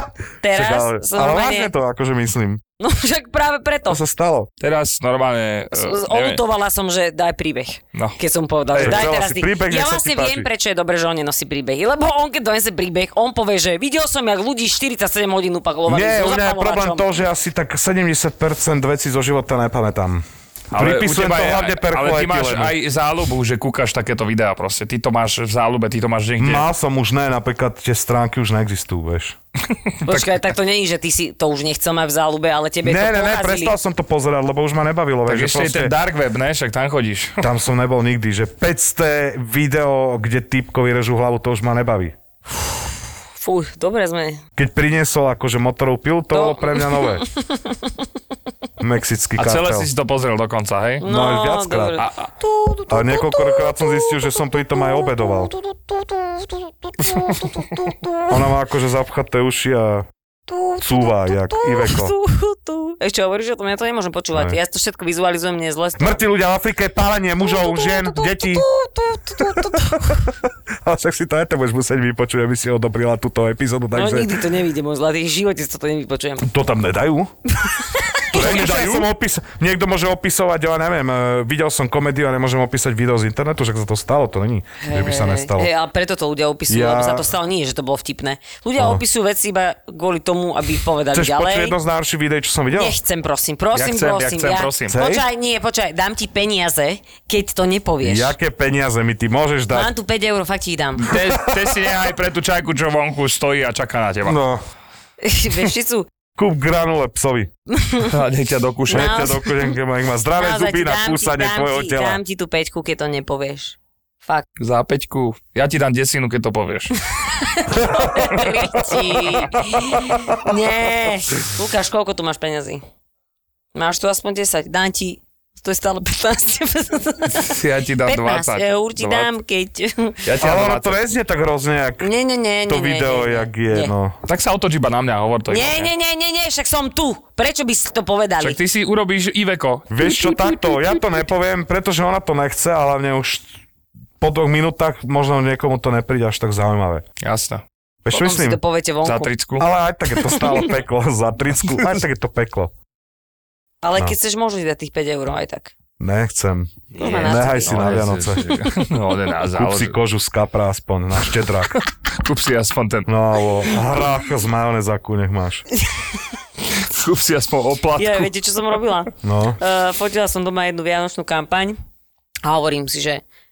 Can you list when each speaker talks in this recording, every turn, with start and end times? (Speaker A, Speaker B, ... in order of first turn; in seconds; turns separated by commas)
Speaker A: 0.4-1.7, Speaker B: 0.5-2.6, Speaker A: 2.8-4.0, Speaker B: 3.9-4.5, Speaker C: 4.6-6.4, Speaker A: 5.7-17.1, Speaker C: 8.7-9.0, Speaker B: 8.8-10.5, Speaker B: 15.9-22.7, Speaker C: 20.7-26.6, Speaker B: 26.4-29.4, Speaker A: 30.0-33.7, Speaker C: 30.1-30.3, Speaker B: 32.8-35.9, Speaker C: 35.2-37.5, Speaker B: 37.4-42.1, Speaker A: 43.4-44.4, Speaker B: 44.5-47.2, Speaker A: 46.3-47.9, Speaker B: 48.8-49.9, Speaker C: 49.4-51.0, Speaker A: 51.0-58.3, Speaker B: 51.0-52.0, Speaker C: 52.0-52.3, Speaker B: 52.9-55.5, Speaker B: 58.3-60.1, Speaker A: 60.5-66.2, Speaker B: 60.8-62.1, Speaker B: 66.0-68.7, Speaker A: 67.4-70.3, Speaker B: 69.4-70.3, Speaker B: 70.8-74.4, Speaker A: 73.9-76.5, Speaker B: 76.4-77.3, Speaker A: 77.6-78.6, Speaker C: 78.3-79.1, Speaker B: 78.3-85.7, Speaker A: 84.8-91.8, Speaker B: 86.7-87.3, Speaker B: 91.1-93.0, Speaker A: 92.7-98.3, Speaker C: 93.7-95.0, Speaker B: 94.9-95.2, Speaker B: 98.0-99.9, Speaker A: 99.7-101.1, Speaker C: 101.0-104.4, Speaker B: 101.1-101.6, Speaker B: 104.2-104.6, Speaker A: 105.2-106.1, Speaker B: 106.3-107.5, Speaker A: 107.7-108.1, Speaker C: 108.0-109.3, Speaker A: 108.9-109.7, Speaker B: 108.9-112.2, Speaker A: 110.3-114.5, Speaker C: 114.6-117.0, Speaker A: 117.4-122.8, Speaker B: 117.9-118.3, Speaker A: 123.7-130.2, Speaker C: 127.3-129.3, Speaker C: 130.2-131.0, Speaker B: 130.4-132.1, Speaker A: 132.0-133.9, Speaker B: 132.7-134.2, Speaker C: 134.2-135.9, Speaker A: 135.5-138.6, Speaker C: 138.4-140.6, Speaker B: 139.9-143.5, Speaker B: 144.2-147.0, Speaker C: 147.2-147.6, Speaker B: 148.0-148.6, Speaker A: 148.1-149.3, Speaker C: 149.0-149.7, Speaker B: 149.6-152.7, Speaker A: 153.8-155.7, Speaker B: 156.0-158.6, Speaker C: 156.9-160.0, Speaker A: 157.0-157.9, Speaker B: 159.5-161.8, Speaker C: 162.1-163.1, Speaker B: 163.1-165.6, Speaker C: 166.7-168.3, Speaker A: 168.0-171.8, Speaker B: 169.2-169.6, Speaker A: 172.4-173.2